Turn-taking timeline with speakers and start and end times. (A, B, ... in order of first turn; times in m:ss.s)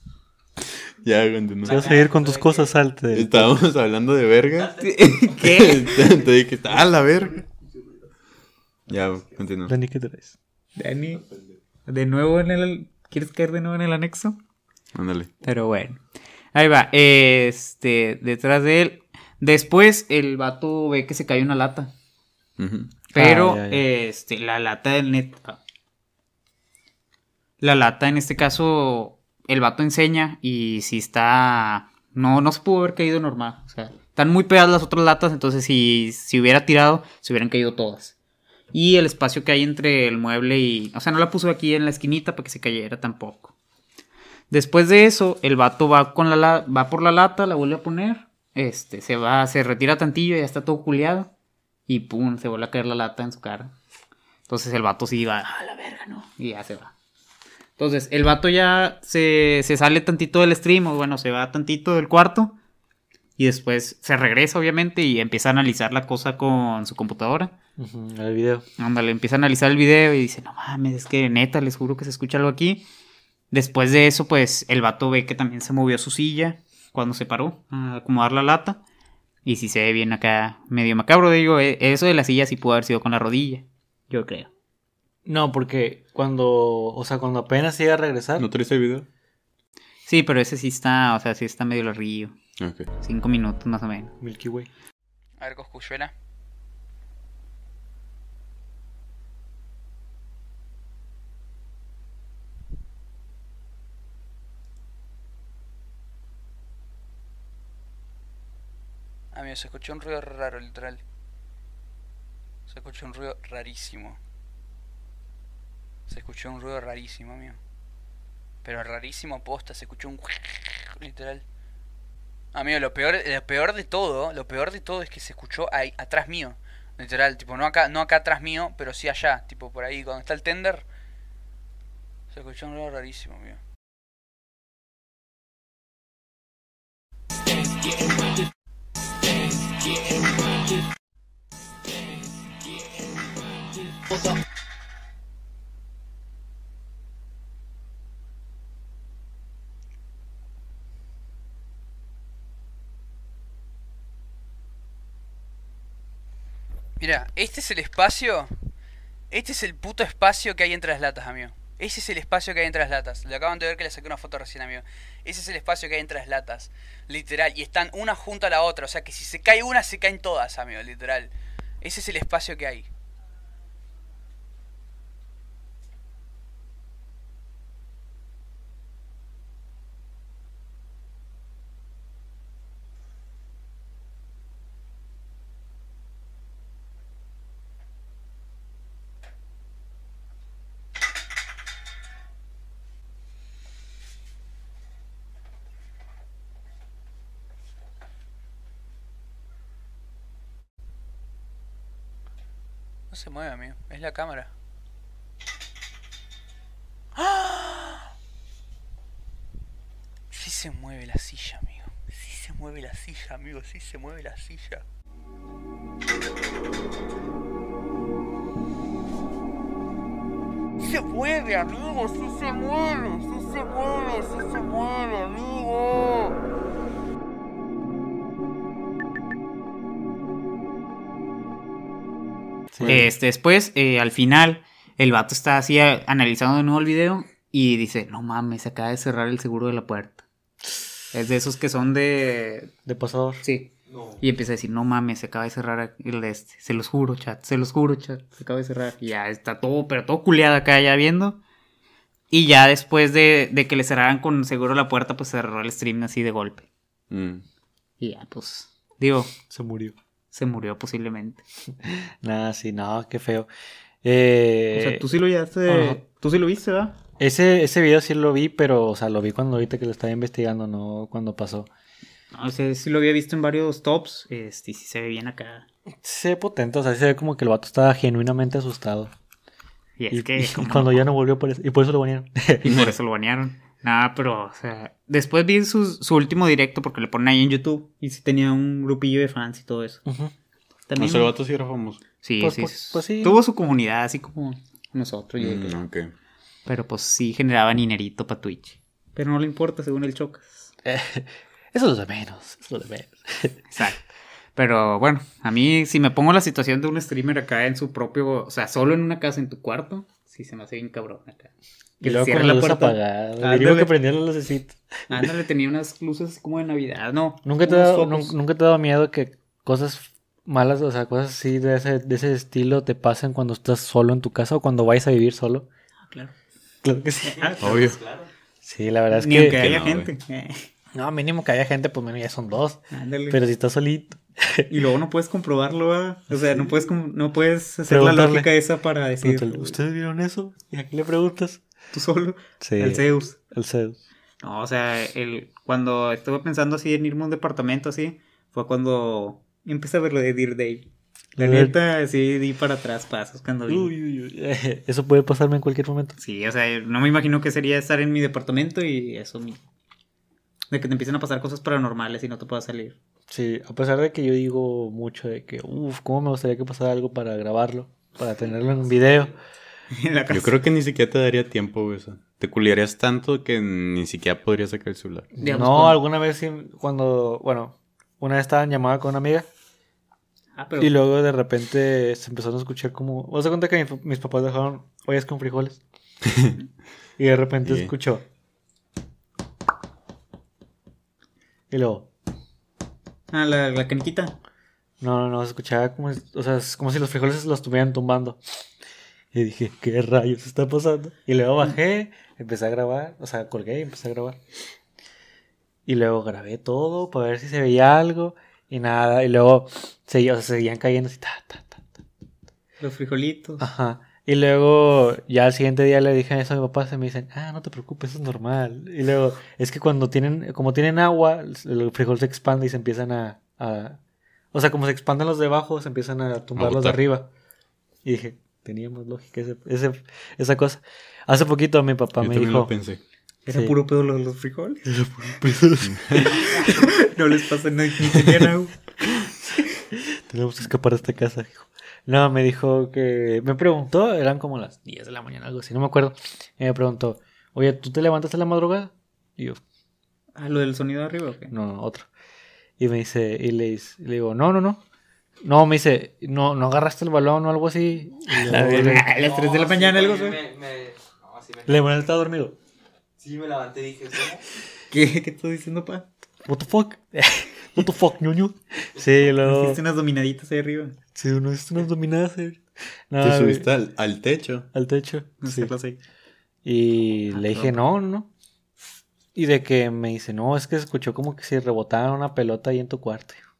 0:01.0-0:01.9 A
0:01.6-0:02.8 B
0:01.7-0:03.6 C
0:03.1-0:04.8 A
0:04.8-0:06.0 D
0:05.4-0:07.4 A
0:08.9-0:09.7 A
0:09.6-0:10.3 C
0:10.8-0:11.2 D
0:11.9-0:14.4 D
0:14.9-0:15.3 A
0:15.4-0:16.0 D
0:16.5-0:21.9 D
0:22.6-0:22.9 A
0:23.1-0:25.6 D
0:23.1-0:23.8 C
0:27.6-0:38.1 D
0:38.7-0:43.5 D
0:44.5-0:51.3 D
0:51.9-0:53.7 D
0:54.5-0:56.9 D
0:57.8-1:02.5 D
1:03.4-1:07.5 D
1:07.8-1:08.6 C
1:08.8-1:12.8 D
1:13.5-1:18.8 D
1:19.4-1:24.5 D
1:25.2-1:28.5 C
1:28.4-1:29.1 A
1:30.1-1:32.3 D
1:32.6-1:32.9 A
1:33.0-1:34.1 D
1:34.2-1:34.7 C
1:35.4-1:36.1 E
1:49.3-1:51.0 E
1:52.7-1:54.2 E
1:56.1-1:57.6 E
1:58.6-2:01.4 E
2:02.5-2:10.9 E
2:12.3-2:13.6 E
2:37.0-2:38.5 E
2:39.3-2:52.9 E
3:23.1-3:24.5 E
3:27.1-3:28.1 E
3:30.3-3:34.8 E
3:40.8-3:46.0 E
3:52.7-3:53.1 C
3:52.9-4:00.2 D
4:01.1-4:02.7 D
4:02.8-4:03.4 C
4:03.4-4:11.4 D
4:03.9-4:04.2 B
4:12.3-4:16.7 D
4:17.1-4:17.4 A
4:18.0-4:19.3 D
4:19.5-4:19.9 C
4:20.3-4:21.4 D
4:21.8-4:23.5 C
4:24.0-4:25.0 C
4:24.7-4:27.0 D
4:25.7-4:26.0 C
4:27.2-4:31.7 C
4:32.3-4:35.6 D
4:36.0-4:39.1 C
4:40.0-4:41.0 D
4:40.1-4:42.6 C
4:42.6-4:50.0 D
4:42.6-4:42.9 A
4:50.0-4:50.3 C
4:50.9-4:51.3 D
4:51.0-4:52.0 A
4:52.2-4:55.8 D
4:52.4-4:53.4 C
4:55.4-4:56.1 A
4:56.6-5:00.7 D
5:00.8-5:03.6 C
5:03.7-5:04.0 D
5:04.6-5:13.9 D
5:12.0-5:15.2 C
5:15.1-5:18.3 D
5:17.4-5:25.6 C
5:26.1-5:26.3 D
5:26.8-5:27.6 C
5:27.2-5:28.3 B
5:27.6-5:28.0 A
5:28.6-5:29.6 C
5:29.1-5:30.7 D
5:29.4-5:30.1 A
5:30.9-5:34.7 C
5:32.9-5:33.4 D
5:34.7-5:39.8 D
5:36.3-5:36.7 C
5:37.9-5:38.5 C
5:39.2-5:41.6 C
5:41.9-5:43.4 D
5:42.6-5:44.0 C
5:44.4-5:53.9 D
5:51.4-5:51.7 C
5:53.7-5:56.2 C
5:56.2-5:59.6 D
6:00.7-6:03.0 D
6:03.3-6:09.3 C
6:08.4-6:09.3 B
6:09.9-6:10.5 D
6:10.3-6:15.3 A
6:15.4-6:19.5 C
6:15.4-6:16.0 D
6:20.6-6:20.9 D
6:20.8-6:25.8 C
6:26.2-6:26.6 A
6:27.2-6:28.2 C
6:27.6-6:27.9 A
6:31.7-6:32.1 C
6:33.3-6:34.3 D
6:35.0-6:38.4 C
6:39.3-6:44.4 C
6:45.9-6:52.0 C
6:52.8-6:53.6 D
6:53.6-7:04.0 C
7:04.5-7:07.3 C
7:06.6-7:07.0 A
7:08.0-7:12.7 C
7:12.2-7:13.0 A
7:13.4-7:14.8 D
7:13.5-7:13.7 C
7:14.8-7:16.7 C
7:15.8-7:16.4 A
7:16.6-7:18.7 D
7:19.9-7:29.6 C
7:30.3-7:31.5 D
7:31.5-7:32.1 C
7:32.8-7:34.8 C
7:35.4-7:39.1 C
7:38.3-7:40.4 D
7:39.1-7:42.1 B
7:41.7-7:42.6 C
7:43.2-7:44.4 B
7:44.9-7:46.1 D
7:46.4-7:49.8 C
7:49.4-7:51.0 D
7:51.1-7:53.7 C
7:53.2-7:54.7 A
7:54.7-7:55.7 C
7:55.4-7:56.0 D
7:56.6-7:58.3 C
7:57.3-7:57.8 D
7:59.3-8:03.4 C